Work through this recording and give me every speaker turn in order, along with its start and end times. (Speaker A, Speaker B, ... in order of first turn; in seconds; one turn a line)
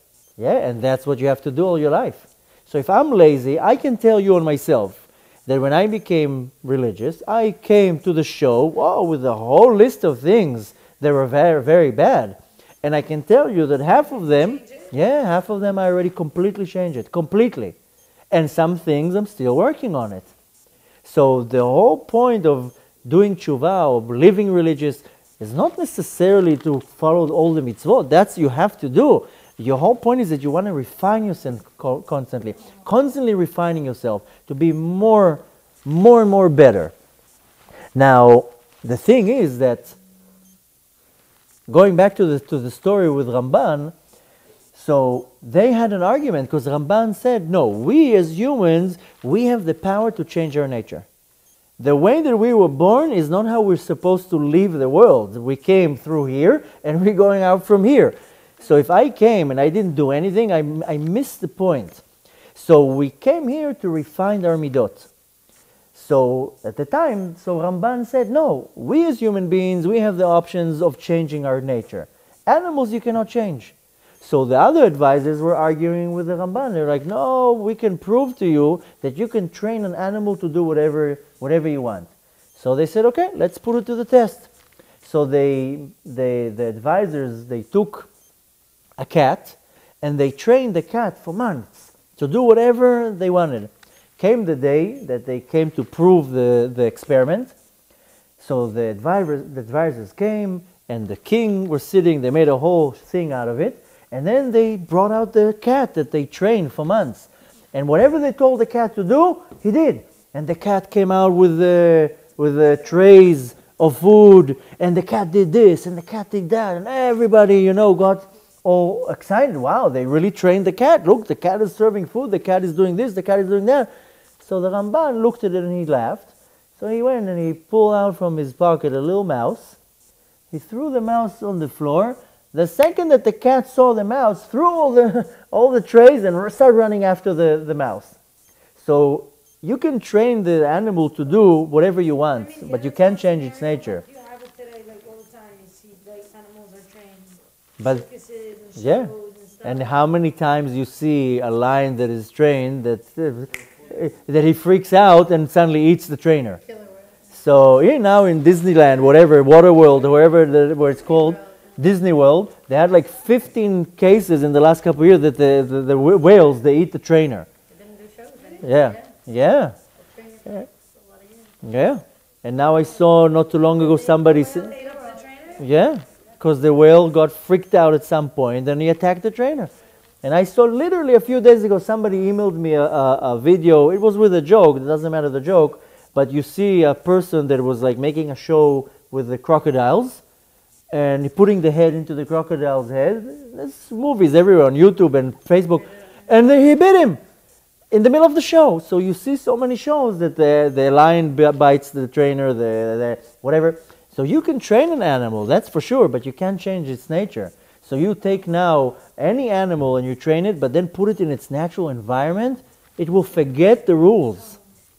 Speaker A: 0.4-17.8
Speaker B: 13.9-14.9
Speaker A: 18.3-20.3
Speaker A: 21.0-36.9
Speaker A: 38.0-40.0
Speaker A: 41.7-44.0
Speaker A: 44.7-51.1
Speaker A: 51.8-62.0
Speaker A: 62.5-65.1
Speaker A: 65.9-84.5
Speaker A: 85.0-88.1
Speaker A: 89.0-97.5
Speaker A: 98.4-123.9
Speaker A: 124.4-129.8
Speaker A: 130.5-138.2
Speaker A: 138.8-144.0
Speaker B: 142.3-150.2
Speaker A: 147.8-148.1
Speaker A: 148.8-156.6
Speaker C: 156.6-157.3
Speaker A: 157.3-167.5
Speaker C: 160.9-161.8
Speaker C: 167.7-169.2
Speaker B: 168.4-168.7
Speaker A: 168.6-169.8
Speaker C: 169.9-171.6
Speaker A: 171.6-174.8
Speaker B: 173.7-175.7
Speaker C: 174.7-175.2
Speaker A: 175.6-179.7
Speaker A: 180.2-190.2
Speaker A: 190.9-197.2
Speaker C: 195.6-196.3
Speaker A: 197.9-214.6